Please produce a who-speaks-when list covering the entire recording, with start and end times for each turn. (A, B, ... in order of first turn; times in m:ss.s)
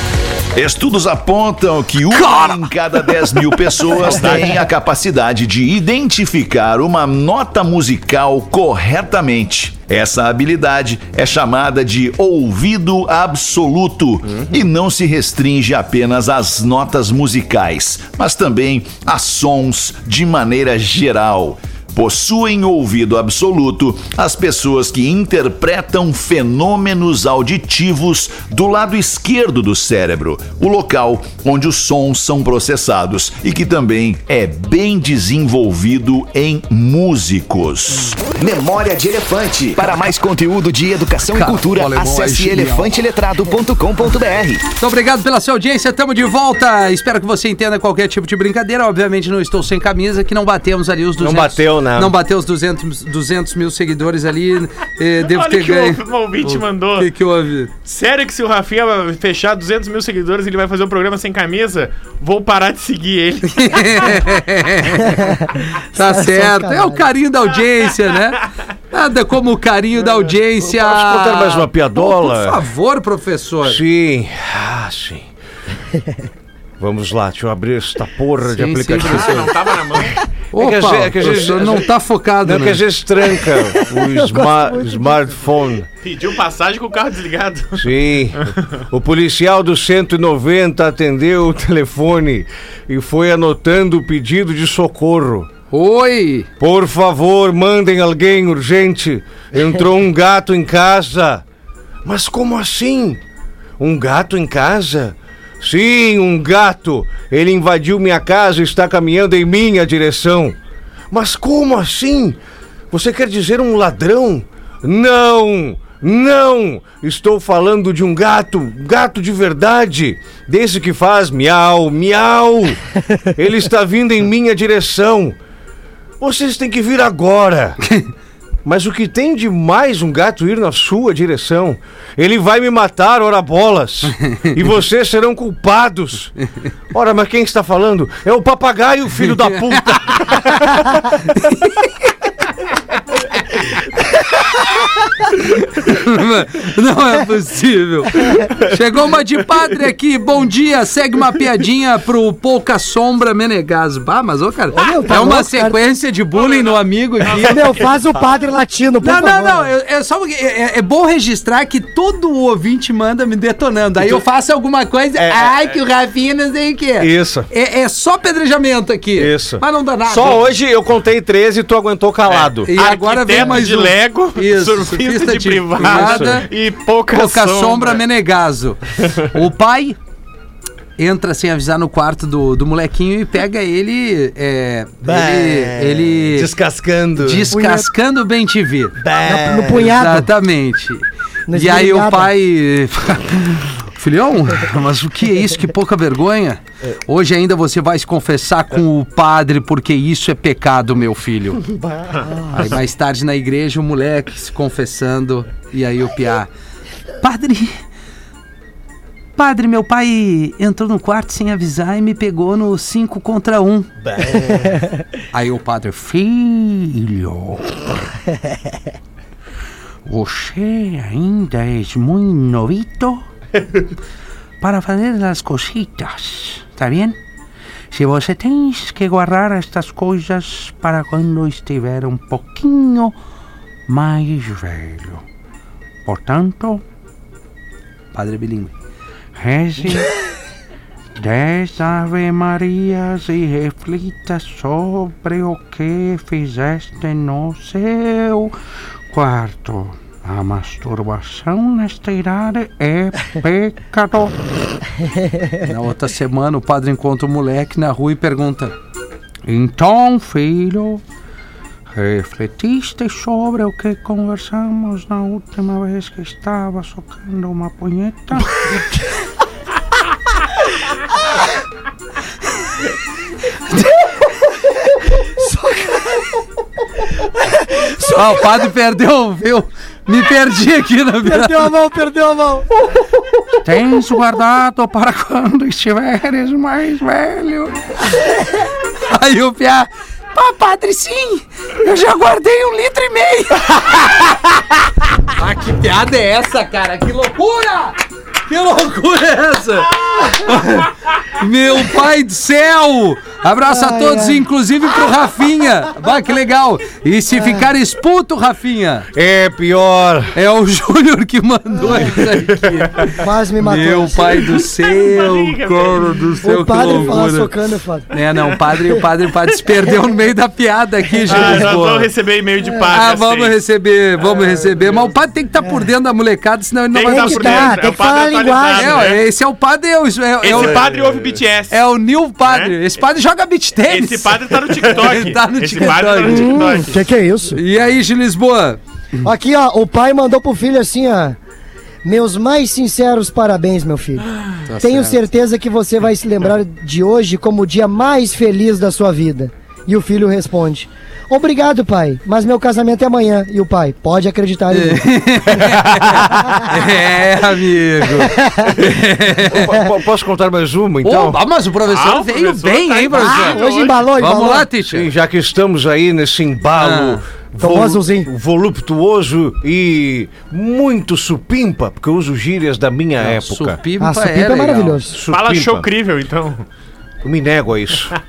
0:00.5-0:38.2 A
0:02.2-0:02.6 B
0:04.0-0:04.6 C
0:38.3-0:44.6 D
0:41.2-0:43.0 B
0:44.7-0:57.7 B
0:51.2-0:52.1 E
0:55.2-0:57.1 C
0:57.8-1:04.2 C
1:03.5-1:05.4 B
1:05.1-1:07.1 F
1:05.9-1:13.8 B
1:10.6-1:12.6 E
1:13.6-1:15.3 E
1:16.8-1:19.6 E
1:18.5-1:19.5 B
1:19.0-1:20.2 C
1:20.5-1:22.8 B
1:20.6-1:21.9 E
1:22.4-1:25.9 E
1:23.4-1:25.2 F
1:26.0-1:28.8 C
1:27.8-1:35.5 E
1:35.7-1:36.5 B
1:36.6-1:41.4 E
1:42.0-1:43.2 E
1:43.8-1:50.6 E
1:51.1-1:52.4 E
1:52.9-2:02.8 E
2:03.3-2:05.4 E
2:06.2-2:07.8 E
2:08.6-2:16.3 E
2:16.9-2:20.6 E
2:19.3-2:19.8 B
2:21.2-2:21.9 B
2:25.3-2:37.8 B
2:34.7-2:35.8 F
2:36.4-2:37.8 C
2:37.4-2:39.7 F
2:39.0-2:50.5 B
2:45.2-2:45.7 E
2:47.0-2:47.5 E
2:49.2-2:52.7 E
2:52.3-2:58.0 C
2:52.6-2:56.5 B
2:55.8-2:56.4 E
2:57.1-3:00.0 B
3:01.0-3:06.5 B
3:05.0-3:07.5 E
3:07.2-3:09.0 B
3:07.5-3:07.9 F
3:09.0-3:09.9 E
3:09.2-3:10.3 F
3:09.7-3:21.6 B
3:11.5-3:12.3 F
3:22.5-3:26.5 B
3:27.2-3:27.8 B
3:29.4-3:33.9 B
3:34.2-3:34.6 E
3:35.3-3:37.8 B
3:40.0-3:43.2 B
3:44.6-3:47.2 B
3:47.9-3:53.1 B
3:53.9-3:55.2 B
3:56.0-3:56.8 B
3:58.1-3:58.7 B
3:59.4-4:00.1 B
4:01.2-4:08.6 B
4:09.1-4:14.3 B
4:15.6-4:18.7 B
4:19.4-4:21.0 B
4:21.9-4:28.7 B
4:35.4-4:36.4 F
4:37.8-4:38.2 F
4:38.0-4:41.7 B
4:41.2-4:42.7 F
4:43.6-4:47.7 B
4:49.1-4:54.4 B
4:55.3-5:09.0 B
5:03.7-5:04.4 F
5:07.3-5:07.7 F
5:09.1-5:10.3 E
5:10.3-5:17.5 B
5:11.8-5:12.2 F
5:13.0-5:14.4 F
5:14.7-5:16.6 C
5:16.4-5:18.1 F
5:18.1-5:22.1 B
5:21.2-5:21.6 F
5:21.3-5:23.6 C
5:22.9-5:27.8 B
5:26.9-5:29.2 C
5:27.0-5:29.1 F
5:28.7-5:30.8 B
5:30.4-5:31.8 C
5:30.5-5:31.0 E
5:31.7-5:36.8 B
5:32.4-5:32.7 C
5:33.9-5:37.1 C
5:36.2-5:37.6 F
5:37.5-5:38.8 B
5:39.2-5:41.4 F
5:42.0-5:56.7 F
5:44.7-5:45.2 B
5:54.7-5:59.7 B
5:58.2-5:58.8 F
5:58.8-6:01.4 E
6:01.0-6:05.1 B
6:01.9-6:04.1 C
6:03.1-6:04.7 F
6:04.9-6:13.8 E
6:06.8-6:07.2 B
6:07.6-6:08.3 F
6:13.2-6:15.0 B
6:14.0-6:15.2 F
6:15.1-6:15.9 E
6:15.3-6:16.6 C
6:17.2-6:18.1 E